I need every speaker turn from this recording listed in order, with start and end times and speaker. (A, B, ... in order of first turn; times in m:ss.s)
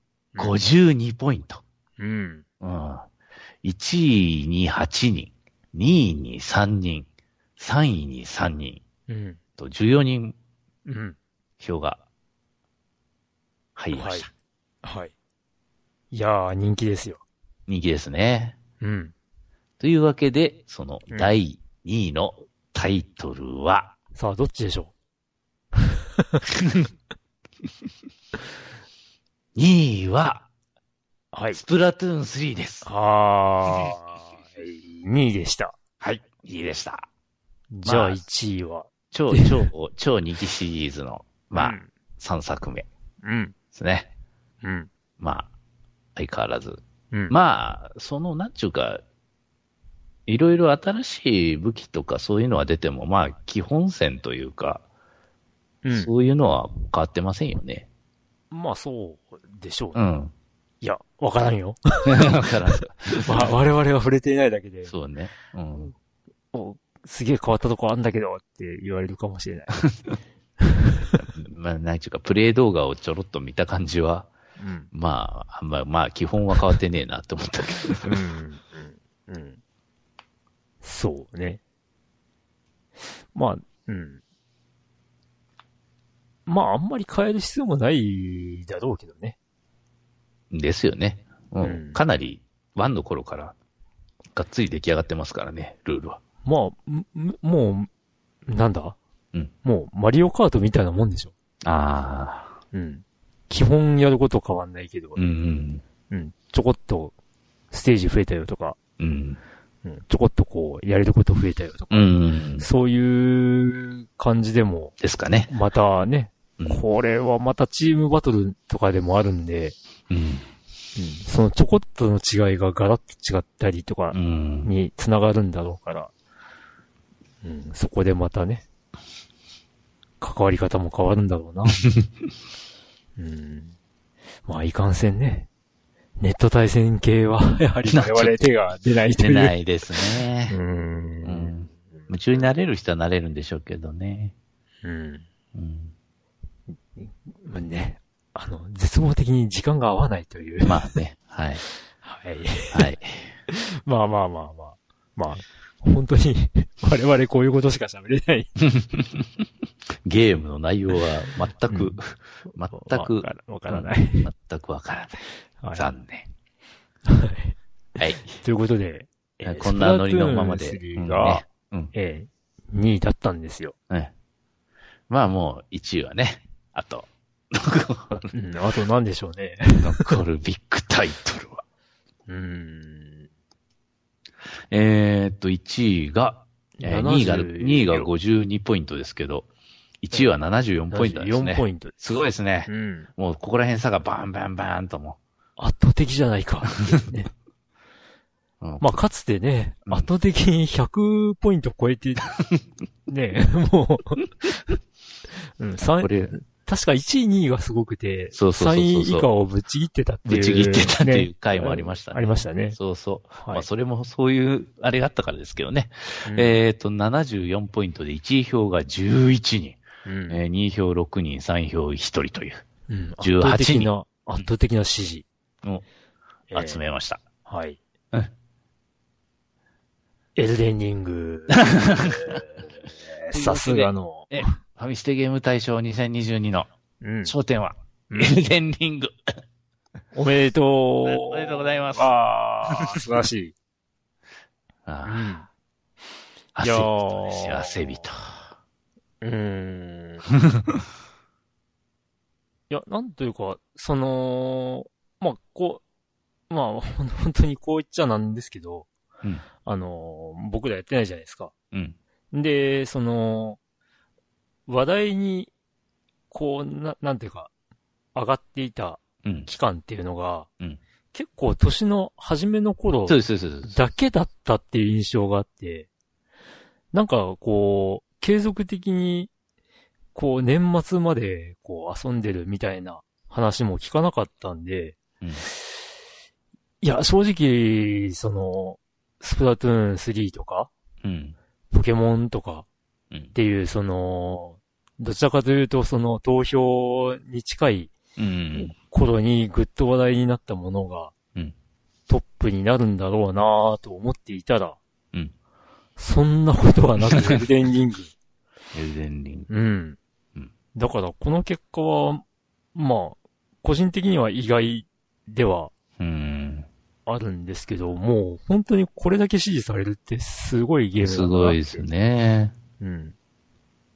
0:00.4-0:00.6 A
0:00.4-0:01.6 B
0:02.0-0:02.4 A
0:02.6-0:03.1 B
0:03.6-0:08.8 B
0:09.1-0:09.4 A
0:09.6-0:10.4 B
0:10.9-0:11.2 A
0:11.6-0:12.0 B
0:13.8-0:14.3 B
0:13.9-0:14.3 A
0:14.8-0:15.1 A
0:16.1-0:17.2 A
0:17.7-0:18.6 B
0:18.8-0:19.1 A
0:19.8-0:24.0 B
0:24.2-0:24.9 A
0:25.8-0:26.4 A
0:26.5-0:26.9 B
0:29.6-0:30.5 B
0:31.3-0:31.6 A
0:31.5-0:32.9 B
0:32.8-0:35.8 A
0:36.0-0:37.1 B
0:37.7-0:39.7 A
0:37.8-0:38.2 B
0:39.1-0:42.9 B
0:41.6-0:41.9 A
0:43.2-0:43.6 A
0:43.7-0:44.1 B
0:44.6-0:44.9 A
0:45.2-0:45.5 B
0:46.2-0:49.0 B
0:50.3-0:54.8 B
0:55.8-0:56.1 A
0:55.9-0:57.9 B
0:58.5-1:00.0 A
1:00.0-1:00.3 B
1:00.8-1:04.9 A
1:02.1-1:03.5 B
1:04.9-1:06.0 B
1:06.5-1:09.8 A
1:10.6-1:11.2 A
1:11.2-1:14.3 B
1:14.6-1:14.9 A
1:14.9-1:18.2 B
1:18.0-1:19.6 A
1:20.8-1:21.6 A
1:23.3-1:24.2 A
1:26.5-1:29.4 A
1:30.5-1:33.6 B
1:31.6-1:32.0 A
1:34.3-1:36.2 B
1:36.4-1:37.9 A
1:38.5-1:39.0 A
1:39.6-1:41.3 A
1:41.6-1:42.6 B
1:42.7-1:45.2 A
1:45.2-1:45.8 B
1:46.1-1:47.1 A
1:47.7-1:48.8 A
1:49.0-1:49.4 B
1:49.8-1:54.9 A
1:51.9-1:52.6 B
1:55.0-1:55.5 B
1:55.5-1:59.8 A
1:56.6-1:56.8 B
2:00.1-2:00.5 B
2:01.0-2:06.1 A
2:04.1-2:04.7 B
2:07.4-2:08.6 A
2:10.2-2:11.8 A
2:13.2-2:13.7 A
2:14.5-2:15.5 A
2:16.2-2:19.6 A
2:17.9-2:18.4 B
2:19.2-2:20.6 B
2:20.5-2:22.1 A
2:21.2-2:24.3 B
2:24.8-2:25.3 A
2:25.5-2:25.9 B
2:27.0-2:31.0 A
2:30.6-2:31.6 B
2:32.0-2:32.9 A
2:32.7-2:33.3 B
2:33.5-2:38.5 A
2:38.6-2:39.4 B
2:40.0-2:46.3 B
2:41.7-2:42.0 A
2:42.7-2:44.3 A
2:45.6-2:45.9 A
2:47.1-2:47.6 A
2:48.0-2:48.4 B
2:48.3-2:53.8 A
2:49.4-2:51.9 B
2:55.1-2:58.2 B
2:58.1-3:00.2 A
2:59.8-3:01.6 B
3:02.3-3:03.3 A
3:04.7-3:09.5 B
3:06.8-3:08.1 A
3:10.0-3:15.2 B
3:10.9-3:12.0 A
3:12.7-3:13.1 A
3:15.6-3:17.3 A
3:18.6-3:19.0 B
3:18.8-3:22.3 A
3:23.1-3:24.6 A
3:25.6-3:32.8 A
3:26.0-3:26.3 B
3:28.3-3:29.3 B
3:30.3-3:42.6 B
3:33.4-3:33.7 A
3:36.3-3:36.6 A
3:40.0-3:40.4 A
3:42.9-3:45.3 A
3:43.2-3:43.9 B
3:46.5-3:46.8 A
3:46.5-3:47.2 B
3:47.4-3:47.8 A
3:50.4-3:54.6 A
3:51.5-3:52.4 B
3:53.3-3:56.7 B
3:57.0-3:57.4 A
3:57.2-3:59.3 B
3:58.1-3:58.4 A
4:00.1-4:03.6 A
4:01.0-4:02.1 B
4:02.7-4:03.0 B
4:04.9-4:05.3 B
4:05.0-4:05.5 A
4:06.6-4:08.5 B
4:06.6-4:08.0 A
4:09.2-4:10.3 A
4:10.4-4:10.8 B
4:12.7-4:15.8 A
4:16.5-4:18.9 A
4:19.6-4:21.5 A
4:21.7-4:22.0 B
4:22.3-4:23.6 A
4:24.7-4:25.5 A
4:26.3-4:27.5 A
4:28.1-4:30.5 A
4:31.1-4:35.9 A
4:33.1-4:33.8 B
4:36.9-4:39.3 A
4:40.1-4:45.5 A
4:46.8-4:50.7 A
4:51.0-4:51.4 B
4:51.7-4:52.7 A
4:53.3-4:58.0 A
4:58.2-4:58.7 B
4:58.5-5:01.1 A
5:02.1-5:04.8 A
5:06.0-5:08.1 A
5:08.7-5:09.5 B
5:09.5-5:10.0 A
5:10.8-5:12.2 A
5:12.8-5:15.7 A
5:16.0-5:16.7 B
5:17.1-5:21.9 A
5:21.0-5:22.5 B
5:22.8-5:23.2 A